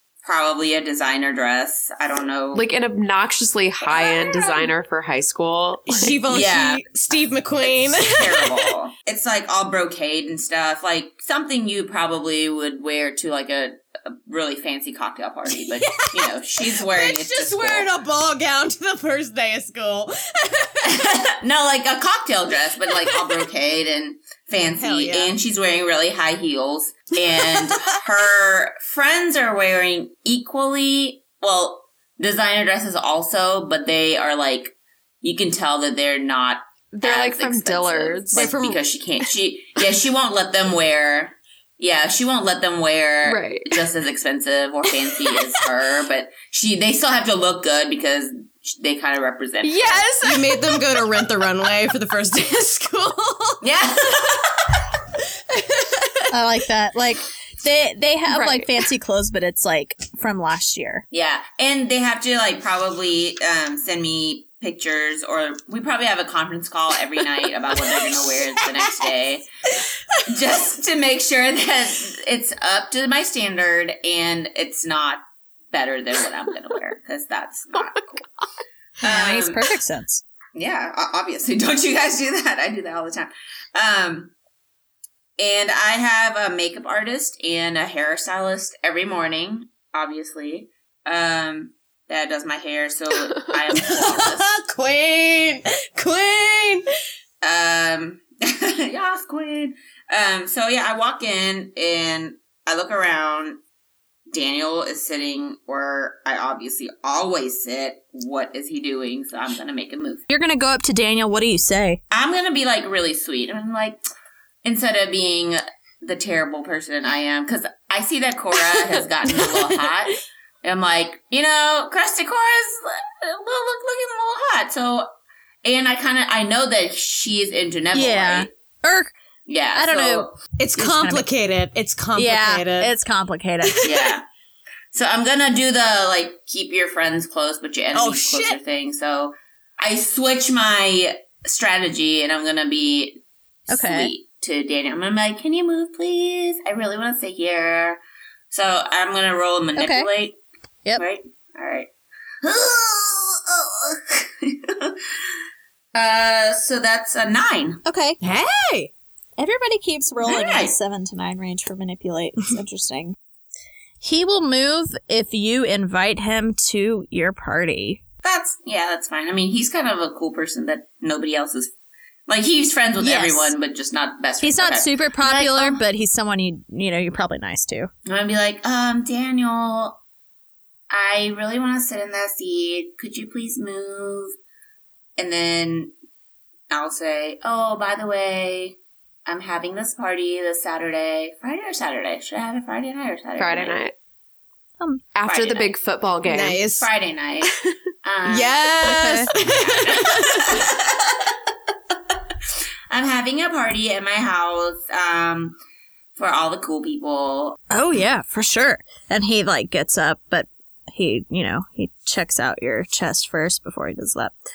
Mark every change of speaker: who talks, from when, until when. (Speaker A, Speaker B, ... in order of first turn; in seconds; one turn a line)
Speaker A: 0.2-2.6
Speaker B: 2.5-6.2
Speaker A: 4.0-4.2
Speaker C: 5.9-8.7
Speaker A: 6.3-6.8
Speaker A: 7.7-17.9
Speaker C: 15.7-21.0
Speaker A: 20.8-50.1
Speaker C: 24.8-25.4
Speaker C: 27.4-28.0
Speaker B: 36.9-38.6
Speaker C: 38.3-38.8
Speaker B: 43.2-43.8
Speaker B: 49.6-50.6
Speaker C: 50.2-53.6
Speaker A: 53.6-54.8
Speaker C: 55.5-55.9
Speaker D: 56.3-61.0
Speaker B: 58.3-58.7
Speaker A: 61.1-69.5
Speaker A: 70.3-78.2
Speaker A: 79.0-79.6
Speaker D: 79.0-80.2
Speaker A: 80.5-84.3
Speaker A: 85.4-94.4
Speaker C: 93.7-96.8
Speaker A: 97.4-103.6
Speaker A: 104.3-110.2
Speaker D: 110.3-112.0
Speaker A: 112.1-114.0
Speaker A: 114.6-125.1
Speaker B: 118.9-119.9
Speaker A: 125.6-128.5
Speaker D: 127.9-129.1
Speaker A: 129.5-130.4
Speaker D: 129.8-131.2
Speaker C: 130.6-132.9
Speaker D: 132.2-133.8
Speaker C: 133.6-134.1
Speaker A: 133.8-134.2
Speaker A: 134.9-148.0
Speaker C: 137.9-138.6
Speaker D: 143.7-144.1
Speaker A: 148.5-150.4
Speaker D: 149.8-150.1
Speaker A: 151.0-151.9
Speaker A: 152.4-155.1
Speaker A: 155.9-157.8
Speaker D: 157.8-158.2
Speaker C: 158.2-158.9
Speaker D: 159.4-163.2
Speaker A: 160.2-160.8
Speaker D: 164.0-168.0
Speaker A: 168.2-171.7
Speaker A: 172.3-175.8
Speaker D: 173.0-173.5
Speaker D: 174.4-177.9
Speaker A: 178.1-180.0
Speaker A: 180.9-184.3
Speaker A: 185.2-185.9
Speaker A: 186.7-193.8
Speaker B: 193.4-193.9
Speaker B: 195.1-196.6
Speaker A: 195.2-195.7
Speaker C: 196.2-196.9
Speaker A: 196.8-197.5
Speaker B: 197.5-197.7
Speaker A: 198.0-201.4
Speaker C: 198.3-200.6
Speaker D: 198.8-199.3
Speaker A: 202.9-205.6
Speaker A: 206.2-207.6
Speaker D: 207.7-214.3